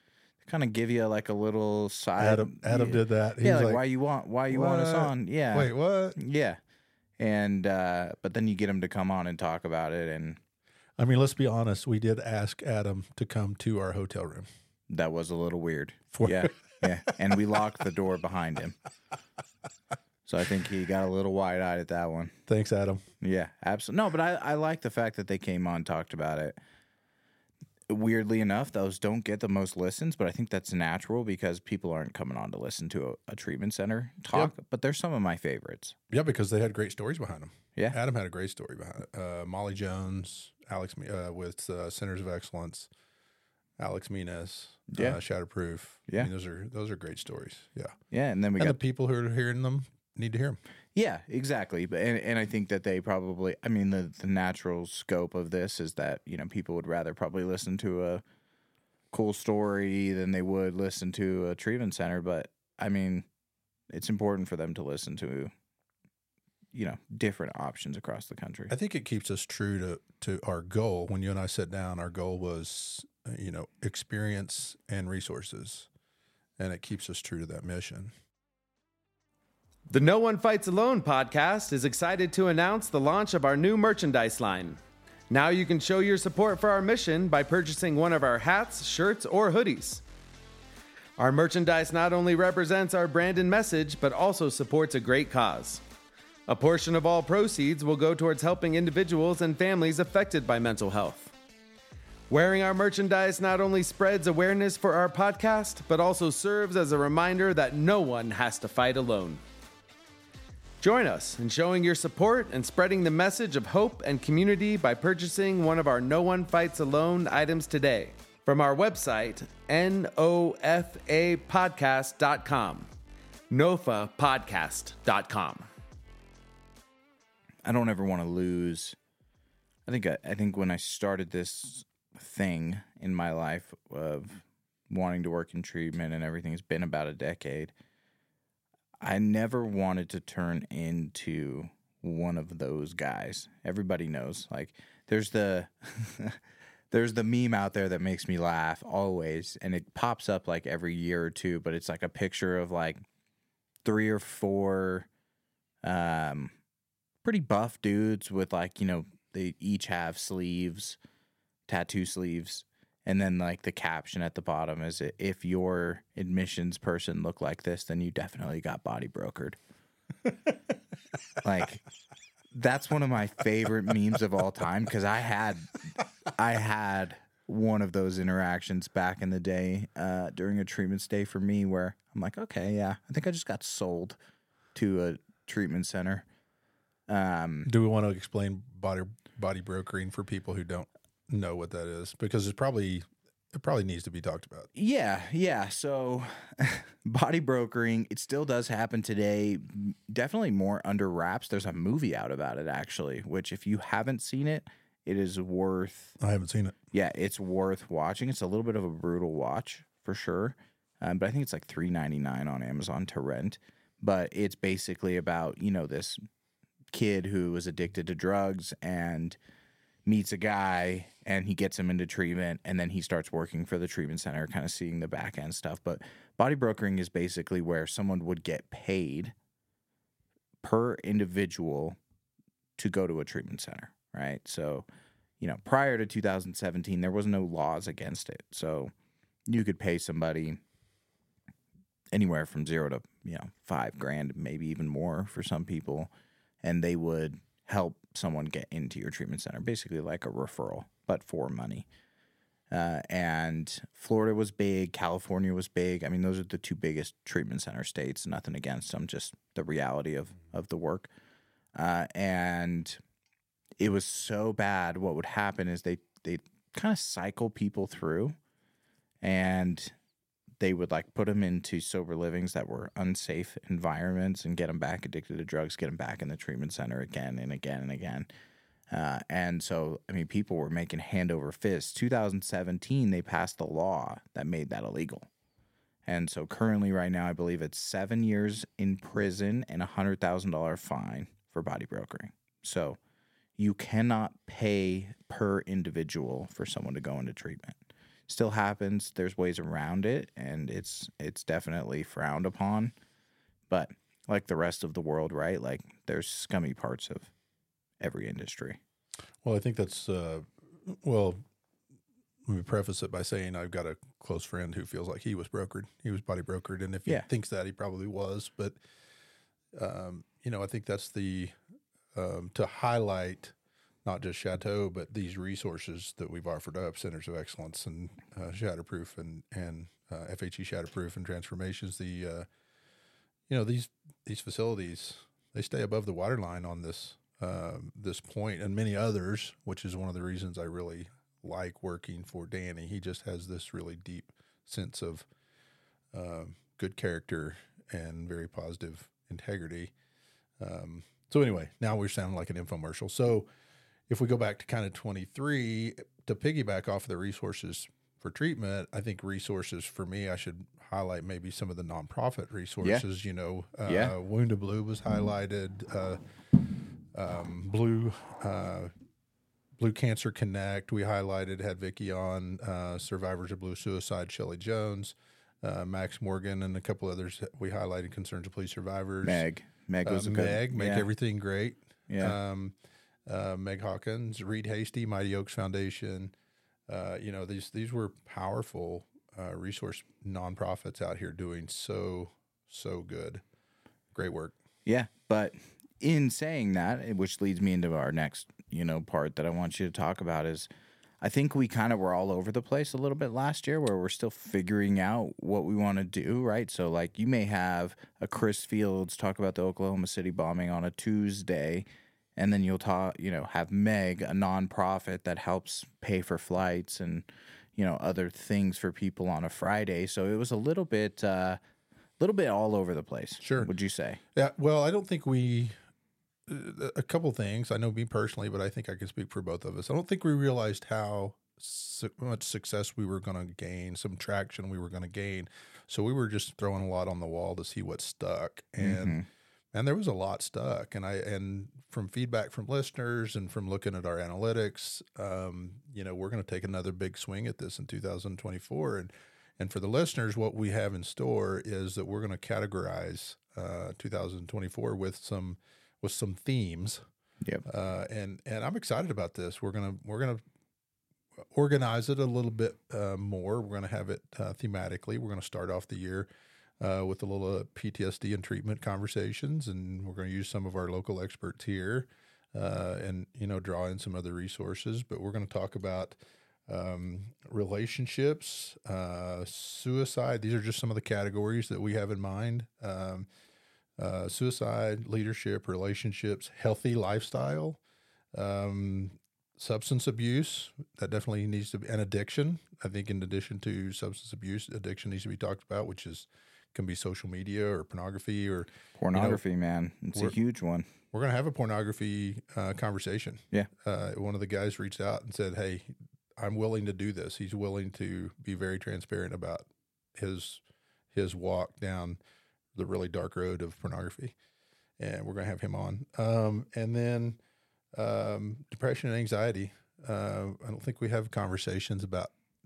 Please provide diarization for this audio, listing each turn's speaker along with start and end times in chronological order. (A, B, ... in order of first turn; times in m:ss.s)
0:00.4-0:06.6 A
0:02.2-0:03.8 B
0:04.5-0:06.2 B
0:07.2-0:10.4 A
0:11.0-0:14.5 B
0:14.9-0:18.8 A
0:16.1-0:16.8 B
0:20.2-0:22.4 A
0:22.5-0:23.0 B
0:23.2-0:26.6 A
0:27.9-0:36.0 A
0:36.1-0:42.9 B
0:43.8-0:47.9 B
0:44.9-0:45.2 A
0:48.1-0:48.8 A
0:48.6-0:50.6 B
0:50.9-0:58.2 A
0:59.1-1:03.3 A
1:03.9-1:05.5 A
1:06.7-1:08.7 A
1:08.7-1:15.9 B
1:16.6-1:18.1 B
1:19.9-1:24.8 C
1:25.3-1:30.0 C
1:31.2-1:35.8 C
1:36.5-1:41.3 C
1:42.3-1:49.4 C
1:50.8-2:02.9 C
2:03.5-2:05.7 C
2:07.6-2:09.0 A
2:09.9-2:17.7 A
2:19.0-2:26.4 A
2:26.9-2:33.0 A
2:33.8-2:35.1 A
2:35.8-2:36.5 A
2:37.2-2:41.0 A
2:41.7-2:49.6 A
2:51.4-2:51.8 A
2:52.5-3:04.2 A
3:04.7-3:06.2 A
3:07.1-3:07.7 A
3:07.6-3:14.7 B
3:14.7-3:26.2 A
3:26.2-3:26.8 B
3:26.9-3:36.2 A
3:36.9-3:39.4 A
3:40.0-3:49.3 A
3:50.6-3:52.0 A
3:52.8-3:54.9 A
3:55.4-3:58.9 A
3:59.5-4:00.6 A
4:02.1-4:06.1 A
4:06.6-4:11.8 A
4:12.7-4:21.1 A
4:21.7-4:23.0 A
4:23.8-4:28.4 A
4:29.2-4:29.9 A
4:30.6-4:38.3 A
4:38.9-4:45.3 A
4:46.0-4:53.0 A
4:53.6-5:02.9 A
5:03.7-5:07.3 A
5:08.0-5:08.8 A
5:09.4-5:11.4 B
5:12.4-5:18.8 B
5:19.7-5:21.6 B
5:22.1-5:23.5 B
5:24.0-5:32.4 B
5:33.5-5:45.3 B
5:46.1-5:49.9 B
5:50.6-5:53.5 B
5:54.1-6:06.2 B
6:03.8-6:04.1 A
6:07.1-6:08.9 B
6:09.8-6:19.4 B
6:19.2-6:21.1 A
6:20.0-6:22.7 B
6:22.1-6:22.4 A
6:23.3-6:26.3 B
6:26.9-6:33.4 B
6:34.1-6:34.6 B
6:34.8-6:40.7 A
6:41.2-7:01.6 A
7:02.2-7:04.2 A
7:03.4-7:03.7 B
7:04.3-7:05.7 B
7:06.5-7:19.2 B
7:18.8-7:19.3 A
7:19.7-7:37.0 B
7:37.6-7:40.4 B
7:41.5-7:46.3 B
7:46.8-7:56.2 B
7:56.7-8:03.3 B
8:04.0-8:07.8 B
8:08.3-8:19.4 B
8:19.0-8:20.9 A
8:21.1-8:30.6 B
8:31.1-8:32.2 B
8:32.7-8:34.3 B
8:35.0-8:37.4 B
8:37.9-8:42.3 B